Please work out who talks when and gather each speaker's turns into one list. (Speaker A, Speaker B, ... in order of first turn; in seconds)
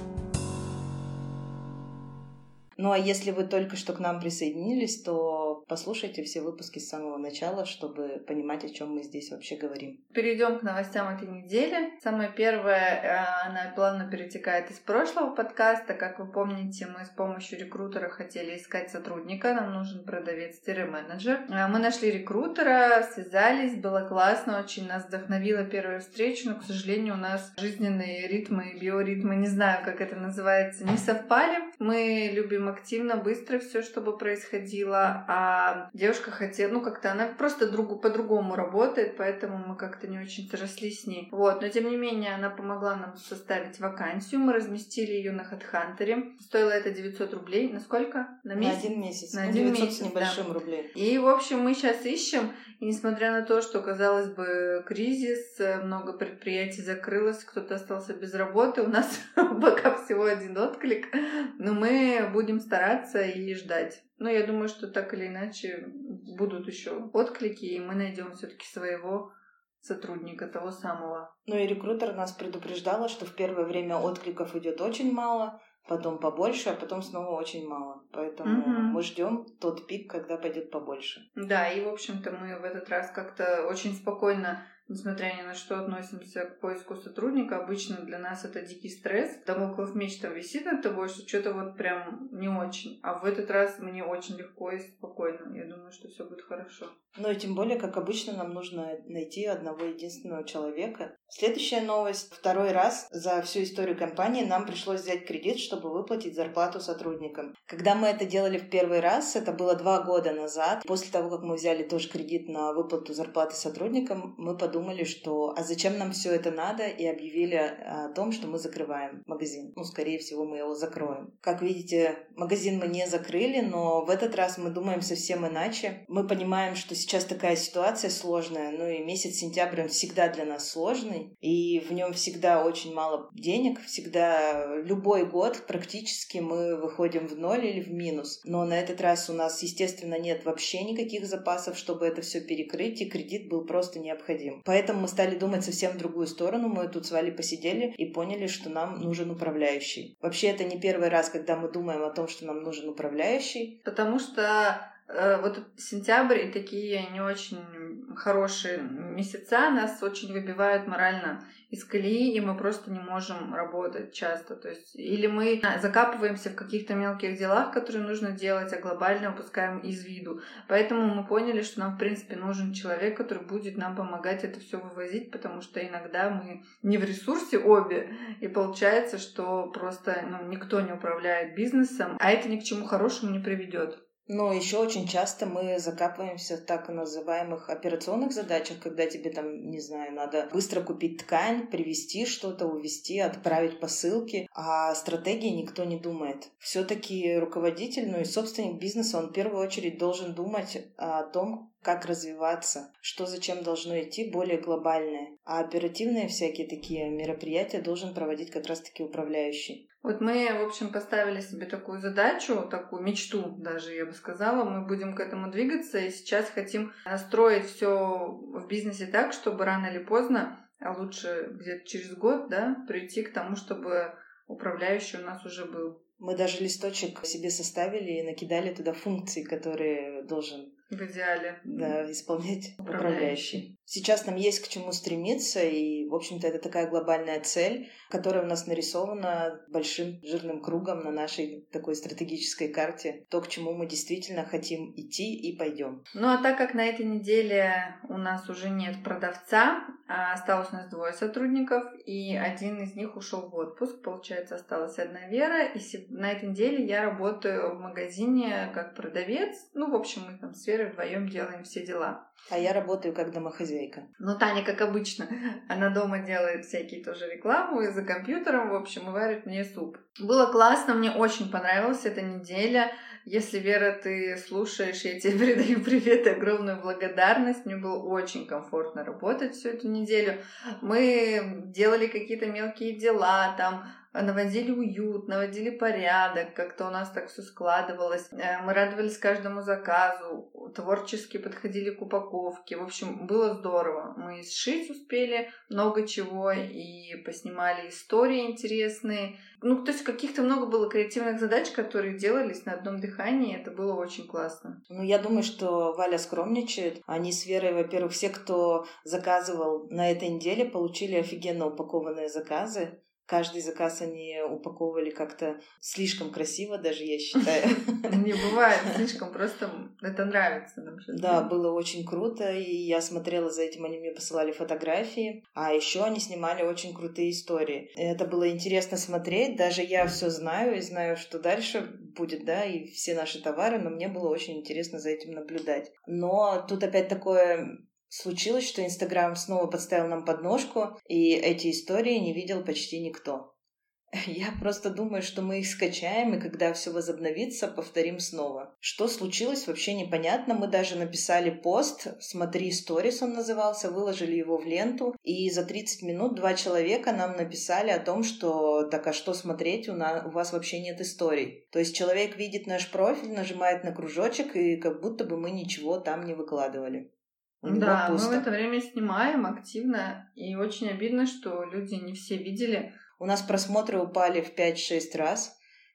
Speaker A: 2.8-10.0, 48.5-50.9, 71.5-81.2, 97.1-153.8, 184.3-209.8, 226.2-230.7, 231.7-246.0, 262.5-264.1, 304.9-318.1, 321.1-343.5, 344.2-367.1, 367.6-368.4, 373.2-375.6
Speaker B: 10.1-50.4, 50.9-69.3, 69.8-71.3, 78.4-79.0, 81.3-96.9, 153.8-184.0, 210.0-226.0, 230.9-231.9, 232.8-233.5, 246.1-262.3, 264.2-304.8, 318.0-321.5, 367.6-372.9